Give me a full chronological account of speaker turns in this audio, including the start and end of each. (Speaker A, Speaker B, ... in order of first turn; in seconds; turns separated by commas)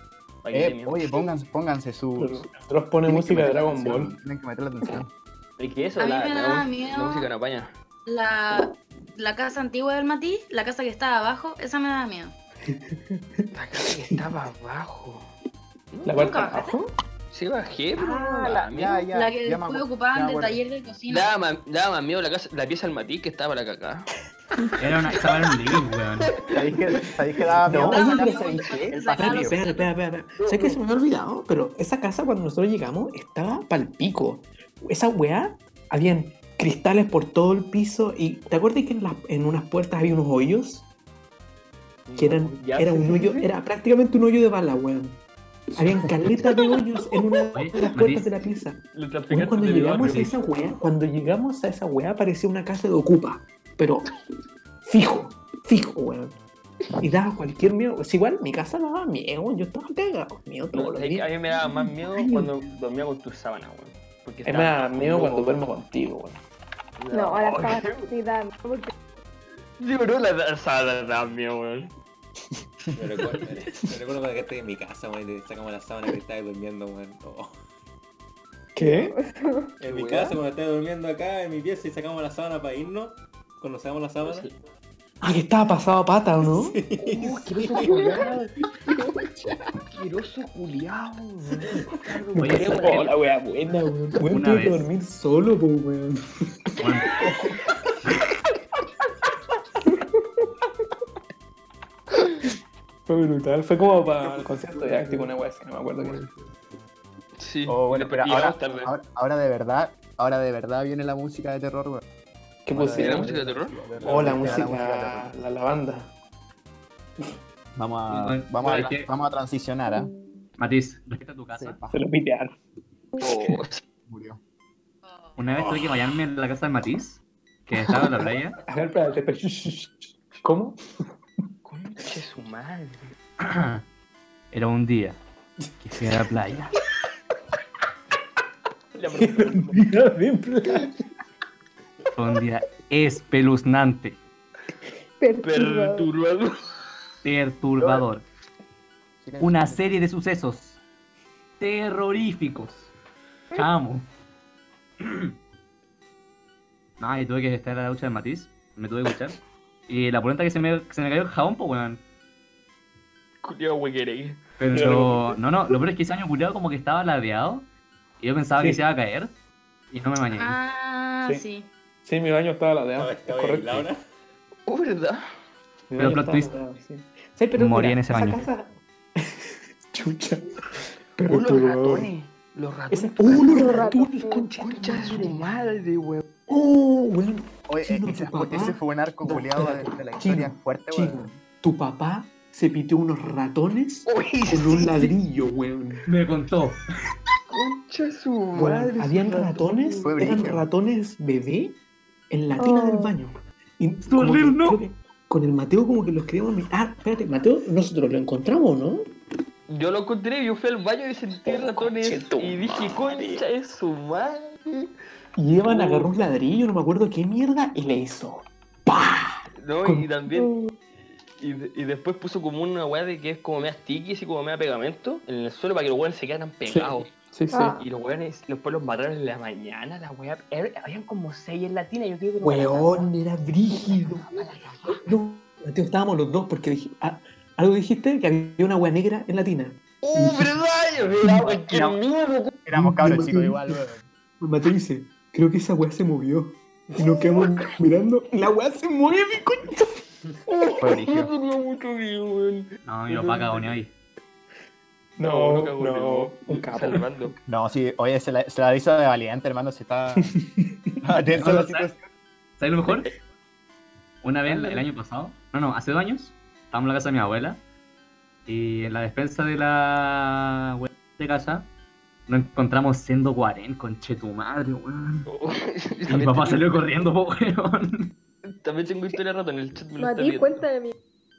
Speaker A: 0.4-1.1, Speaker B: 0.5-2.5, Speaker C: 2.2-4.1, Speaker B: 3.0-5.1, Speaker A: 5.6-7.7, Speaker D: 6.0-7.3, Speaker D: 8.1-12.3, Speaker C: 12.7-13.5, Speaker A: 13.5-15.3, Speaker A: 15.9-16.5, Speaker C: 16.1-16.9, Speaker D: 16.2-16.7, Speaker A: 17.3-19.1, Speaker B: 18.0-20.6, Speaker D: 19.1-21.3, Speaker A: 21.1-24.1, Speaker E: 24.8-26.4, Speaker A: 26.3-26.6, Speaker B: 26.5-29.6, Speaker C: 27.6-40.9, Speaker D: 27.8-29.9, Speaker A: 30.4-30.8, Speaker A: 42.1-43.5, Speaker C: 42.2-45.2, Speaker C: 45.8-48.8, Speaker E: 47.5-48.4, Speaker A: 48.9-50.5, Speaker C: 49.3-54.1, Speaker E: 49.7-50.3, Speaker C: 54.9-56.4, Speaker C: 57.0-62.5, Speaker A: 60.7-65.6, Speaker C: 64.5-66.4, Speaker A: 67.0-68.1, Speaker F: 67.1-68.9, Speaker A: 69.8-71.9, Speaker G: 73.0-77.5, Speaker C: 78.8-79.2, Speaker F: 78.8-79.7, Speaker G: 79.8-84.5, Speaker A: 79.8-80.4, Speaker A: 84.2-84.6, Speaker C: 85.2-86.8, Speaker G: 86.4-88.1, Speaker A: 87.0-88.5, Speaker F: 87.8-88.2, Speaker A: 89.9-93.2, Speaker C: 92.3-97.6, Speaker E: 92.4-93.0, Speaker E: 94.2-94.9, Speaker E: 96.8-97.2, Speaker C: 103.1-106.3, Speaker A: 107.4-108.9, Speaker B: 107.7-112.0, Speaker C: 112.7-113.3, Speaker B: 112.7-115.3, Speaker A: 112.9-114.5, Speaker C: 114.0-116.1, Speaker B: 117.8-120.1, Speaker E: 118.1-119.1, Speaker E: 120.6-121.8, Speaker B: 121.5-122.0, Speaker C: 121.9-122.6, Speaker A: 123.2-123.8, Speaker C: 123.2-123.6, Speaker B: 124.1-124.4, Speaker E: 125.4-128.6, Speaker G: 125.5-126.0, Speaker C: 127.8-130.8, Speaker A: 131.7-133.1, Speaker E: 133.4-133.8, Speaker E: 134.5-135.2, Speaker E: 135.8-136.7, Speaker A: 138.9-139.8, Speaker C: 139.1-141.1, Speaker E: 142.2-144.2, Speaker F: 145.2-146.1, Speaker A: 145.4-146.6, Speaker E: 147.2-148.2, Speaker B: 149.2-149.8, Speaker E: 149.4-150.8, Speaker E: 151.6-152.9, Speaker E: 153.6-154.1, Speaker E: 155.0-155.3, Speaker E: 157.0-162.0, Speaker A: 163.4-164.4, Speaker E: 164.6-167.7, Speaker C: 164.7-165.4, Speaker E: 168.2-169.3, Speaker C: 168.6-168.8, Speaker E: 169.9-170.6, Speaker D: 170.4-171.7, Speaker C: 172.0-173.9, Speaker G: 173.0-174.0, Speaker A: 174.7-175.2, Speaker C: 175.9-182.1, Speaker E: 176.0-176.6, Speaker E: 177.5-178.5, Speaker A: 181.2-183.9, Speaker C: 182.9-185.5, Speaker F: 183.5-184.5, Speaker A: 184.6-186.3, Speaker C: 186.5-196.1, Speaker B: 187.7-191.3, Speaker A: 194.1-195.2, Speaker E: 196.1-196.8, Speaker A: 197.5-200.2, Speaker B: 198.5-198.9, Speaker C: 198.6-201.8, Speaker B: 200.0-200.7, Speaker C: 202.3-209.1, Speaker F: 202.6-203.1, Speaker E: 204.1-204.8, Speaker A: 209.7-214.9, Speaker C: 211.4-213.4, Speaker C: 215.4-220.2, Speaker A: 215.7-216.1, Speaker A: 219.6-220.5, Speaker A: 221.4-227.1, Speaker C: 226.7-227.8, Speaker F: 227.5-227.8, Speaker A: 227.8-233.1, Speaker C: 232.4-234.3, Speaker A: 233.7-235.0, Speaker C: 234.8-240.6, Speaker A: 240.0-242.6, Speaker C: 241.2-241.5, Speaker B: 241.7-242.0, Speaker B: 242.7-244.1, Speaker C: 242.7-243.8, Speaker C: 244.4-250.0, Speaker A: 247.0-247.7, Speaker A: 250.5-253.8, Speaker B: 250.8-251.3, Speaker E: 252.8-253.9, Speaker C: 255.2-257.3, Speaker A: 255.2-257.4, Speaker B: 257.5-260.3, Speaker C: 260.4-260.7, Speaker B: 261.0-262.1, Speaker E: 261.3-261.9, Speaker E: 262.6-263.1, Speaker E: 264.2-267.6, Speaker A: 264.5-264.8, Speaker E: 268.5-271.7, Speaker E: 272.3-275.3, Speaker A: 275.3-276.7, Speaker E: 276.1-278.1, Speaker A: 278.6-280.7, Speaker F: 280.0-280.9